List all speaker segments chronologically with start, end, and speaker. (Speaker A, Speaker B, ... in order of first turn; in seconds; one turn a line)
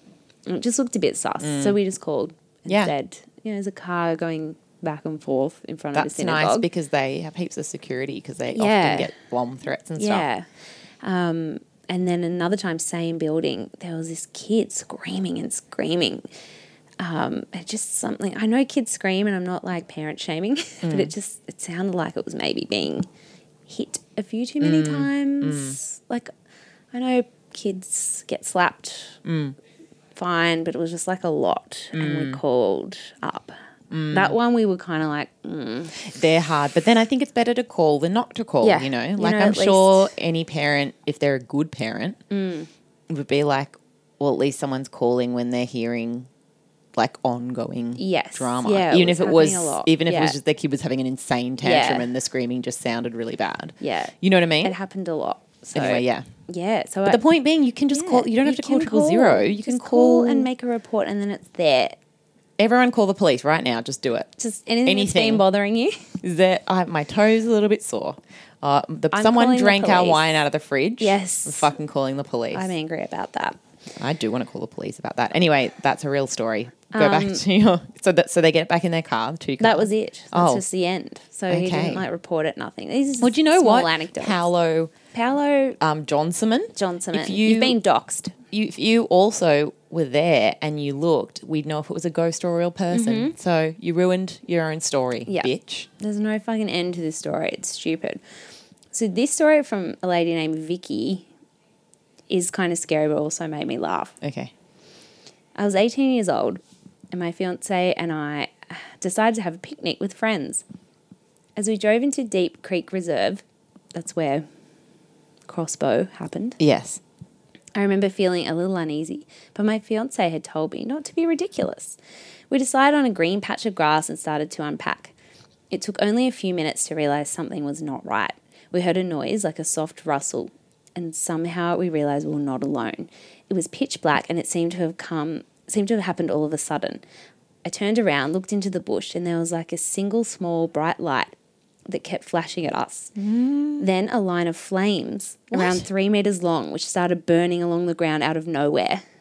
Speaker A: 0.5-6.7
Speaker B: 1.4-1.8
Speaker B: 2.7-2.9
Speaker B: 5.9-10.3
Speaker A: 8.5-9.1
Speaker A: 10.0-10.5
Speaker A: 11.0-16.2
Speaker A: 17.0-23.1
Speaker B: 20.8-21.1
Speaker A: 23.7-26.3
Speaker B: 24.6-25.8
Speaker A: 26.9-29.2
Speaker B: 29.2-29.6
Speaker A: 30.1-33.5
Speaker B: 31.9-32.4
Speaker B: 33.9-34.4
Speaker A: 34.1-36.0
Speaker B: 36.0-42.2
Speaker A: 38.6-40.1
Speaker A: 42.3-42.7
Speaker B: 43.1-46.3
Speaker B: 47.0-54.8
Speaker A: 48.0-50.4
Speaker A: 51.6-52.1
Speaker A: 53.8-57.2
Speaker B: 55.7-56.3
Speaker B: 57.1-60.5
Speaker A: 57.9-62.0
Speaker B: 62.6-64.3
Speaker A: 64.4-66.1
Speaker B: 64.8-65.5
Speaker B: 66.2-72.7
Speaker A: 69.1-70.4
Speaker A: 71.0-71.7
Speaker A: 72.5-73.6
Speaker B: 74.0-80.6
Speaker A: 76.9-77.4
Speaker A: 79.6-84.4
Speaker B: 81.5-82.0
Speaker B: 83.2-84.9
Speaker A: 85.1-85.8
Speaker B: 85.8-87.8
Speaker A: 86.8-88.3
Speaker B: 88.5-95.9
Speaker A: 92.9-93.3
Speaker A: 95.3-98.2
Speaker A: 98.9-101.3
Speaker A: 102.3-104.2
Speaker B: 104.2-104.5
Speaker A: 105.6-106.6
Speaker A: 107.1-110.6
Speaker A: 111.6-114.5
Speaker A: 115.5-116.6
Speaker B: 116.6-117.0
Speaker A: 117.8-122.0
Speaker A: 122.5-125.1
Speaker A: 125.7-137.0
Speaker A: 137.7-141.3
Speaker A: 141.9-143.1
Speaker B: 143.2-143.9
Speaker A: 143.8-149.0
Speaker B: 145.5-145.8